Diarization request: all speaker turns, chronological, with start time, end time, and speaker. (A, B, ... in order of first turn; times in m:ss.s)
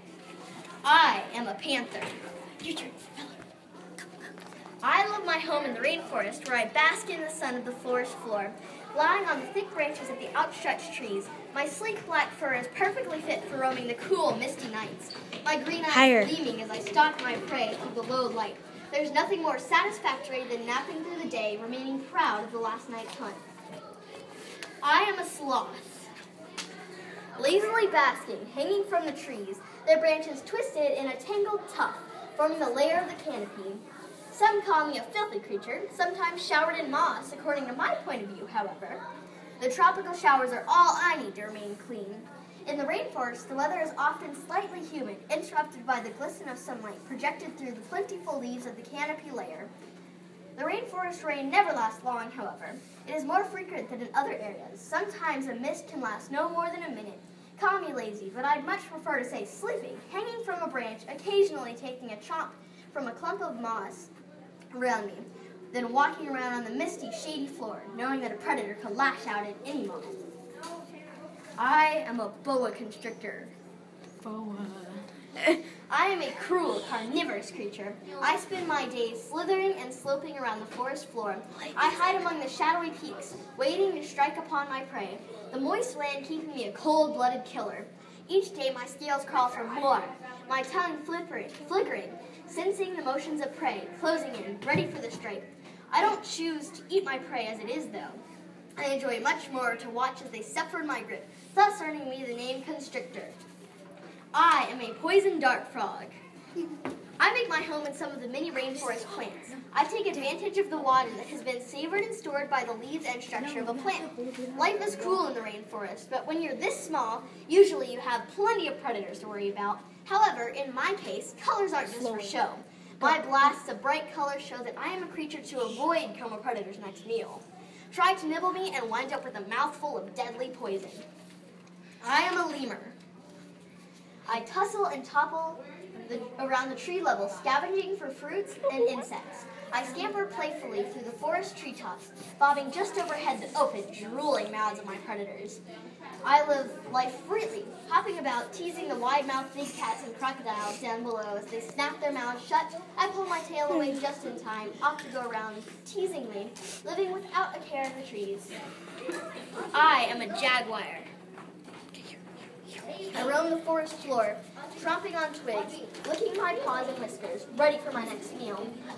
0:00.8-0:03.4 A
0:04.8-0:23.4 A
0:15.9-0:16.3 B
0:24.8-0:26.1 A
0:27.4-0:39.0 A
0:39.6-0:49.7 A
0:50.6-1:04.1 A
1:04.7-1:10.1 A
1:11.6-1:13.5 A
1:14.2-1:15.0 B
1:15.9-1:38.2 A
1:38.8-1:43.4 A
1:44.3-1:46.1 A
1:47.2-2:11.0 A
1:53.5-1:54.9 B
2:02.0-2:02.3 B
2:12.0-2:13.0 A
2:14.2-2:25.6 A
2:26.2-2:38.6 A
2:39.7-2:41.1 A
2:43.0-2:48.7 A